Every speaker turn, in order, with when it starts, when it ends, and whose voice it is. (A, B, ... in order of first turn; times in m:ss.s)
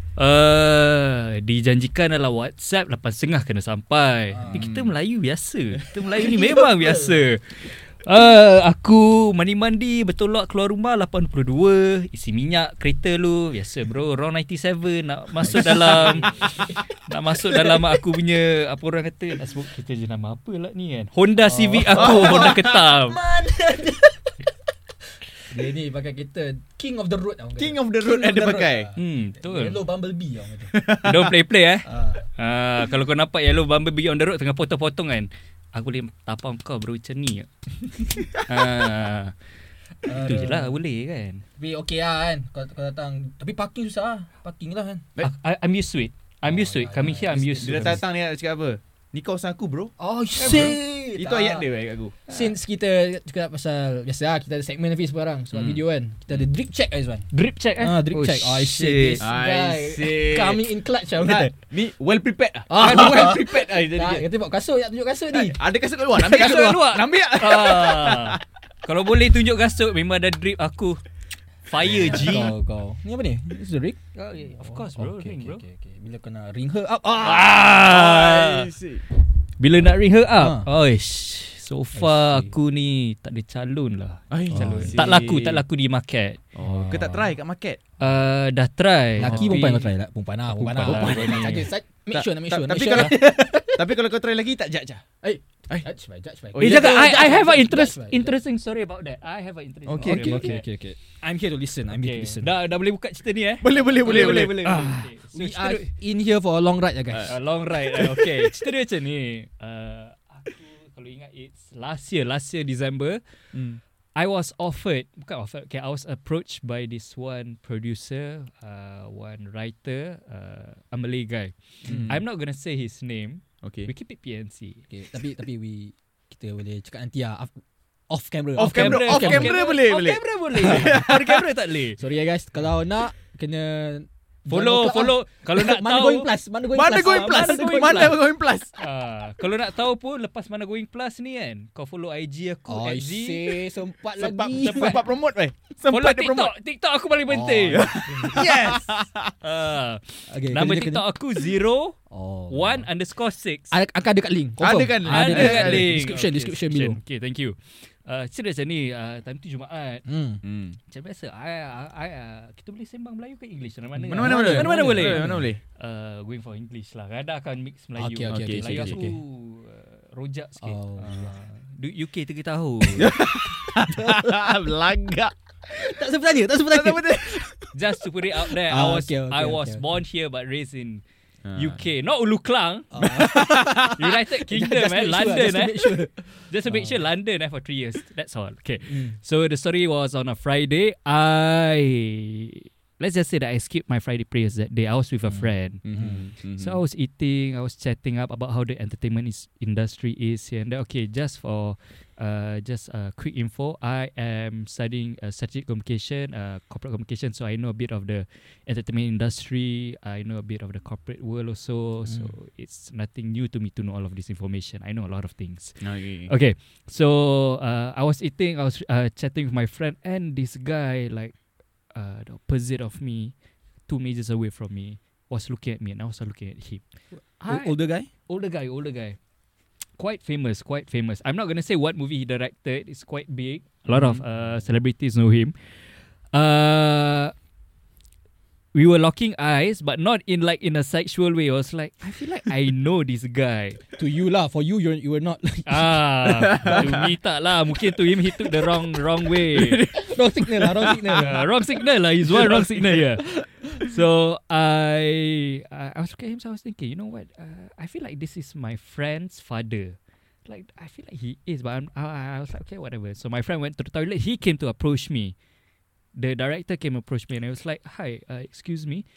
0:00.2-0:23.2 A
0:04.3-0:04.7 B
0:04.5-0:04.9 C
0:06.1-0:07.2 B
0:15.4-0:16.5 B
0:15.7-0:16.2 C
0:21.4-0:24.4 B
0:21.9-0:22.8 C
0:25.4-0:30.8 B
0:27.6-0:28.9 C
0:29.0-0:29.8 A
0:30.7-0:31.3 C
0:31.0-0:39.3 A
0:31.8-0:32.3 B
0:38.3-0:38.7 C
0:40.0-0:40.8 B
0:40.0-0:41.4 A
0:41.6-0:45.0 B
0:45.2-0:48.0 A
0:46.4-0:48.0 B
0:47.6-0:52.2 C
0:50.0-0:51.6 B
0:50.4-0:50.7 A
0:52.3-1:01.6 B
0:55.5-0:56.5 C
0:57.3-0:59.2 A
0:58.8-1:00.6 C
1:01.2-1:04.3 C
1:02.7-1:05.6 B
1:05.3-1:08.4 C
1:06.2-1:06.9 B
1:06.2-1:11.0 A
1:11.6-1:12.5 A
1:11.8-1:12.4 C
1:12.0-1:14.0 B
1:14.1-1:15.6 A
1:14.6-1:17.7 B
1:17.2-1:18.7 A
1:17.8-1:19.0 C
1:19.6-1:26.4 A
1:20.4-1:20.6 B
1:22.0-1:22.5 B
1:24.3-1:25.6 C
1:24.5-1:25.0 B
1:26.5-1:27.8 C
1:26.6-1:27.4 B
1:28.0-1:29.9 A
1:29.2-1:34.0 B
1:29.2-1:29.6 C
1:30.6-1:31.7 A
1:30.6-1:35.0 C
1:35.2-1:38.3 B
1:36.5-1:37.1 C
1:36.6-1:40.6 A
1:39.8-1:40.5 C
1:40.0-1:42.5 B
1:41.9-1:45.9 A
1:43.6-1:44.6 C
1:44.0-1:47.4 B
1:47.3-1:53.2 A
1:48.0-1:48.3 C
1:53.5-1:53.8 C
1:54.2-2:04.8 A
2:01.8-2:02.2 C
2:01.9-2:02.1 B
2:03.6-2:03.9 C
2:04.9-2:09.6 B
2:08.6-2:11.4 C
2:08.6-2:12.0 A
2:10.6-2:11.1 B
2:12.0-2:18.2 B
2:14.5-2:16.3 A
2:16.7-2:18.7 C
2:16.9-2:18.2 A
2:18.7-2:23.6 A
2:22.7-2:25.0 B
2:24.2-2:26.5 C
2:24.4-2:25.1 A
2:25.9-2:28.8 A
2:27.3-2:28.5 B
2:27.7-2:29.3 C
2:29.4-2:32.0 A
2:30.3-2:31.0 B
2:32.1-2:32.9 B
2:32.5-2:33.7 A
2:33.7-2:37.0 B
2:34.6-2:36.0 C
2:35.0-2:40.0 A
2:40.0-2:40.4 B
2:40.4-2:40.8 C
2:40.9-2:53.2 A
2:44.0-2:45.5 B
2:44.1-2:45.6 C
2:48.0-2:49.2 B
2:48.3-2:49.0 C
2:50.6-2:51.3 B
2:52.8-2:55.8 C
2:53.8-2:54.5 B
2:55.7-2:57.7 B
2:56.7-2:57.5 C
2:57.7-3:01.0 A
2:58.3-2:59.8 B
3:01.4-3:01.8 C
3:01.5-3:41.3 A
3:02.9-3:07.0 B
3:03.0-3:04.2 C
3:08.9-3:09.2 B
3:15.3-3:16.2 B
3:15.8-3:16.8 C
3:35.8-3:36.3 C
3:41.9-3:43.3 A
3:43.9-3:46.8 A
3:47.4-3:47.7 A
3:47.5-3:48.1 B
3:48.3-3:49.2 A
3:50.0-3:55.8 A
3:53.9-3:54.2 C
3:56.3-3:57.3 A
3:58.7-4:03.8 A
4:04.0-4:07.0 B
4:05.6-4:09.8 A
4:06.2-4:07.1 C
4:09.4-4:11.3 C
4:09.9-4:11.4 B
4:11.1-4:25.3 A
4:12.3-4:13.0 C
4:26.2-4:29.0 A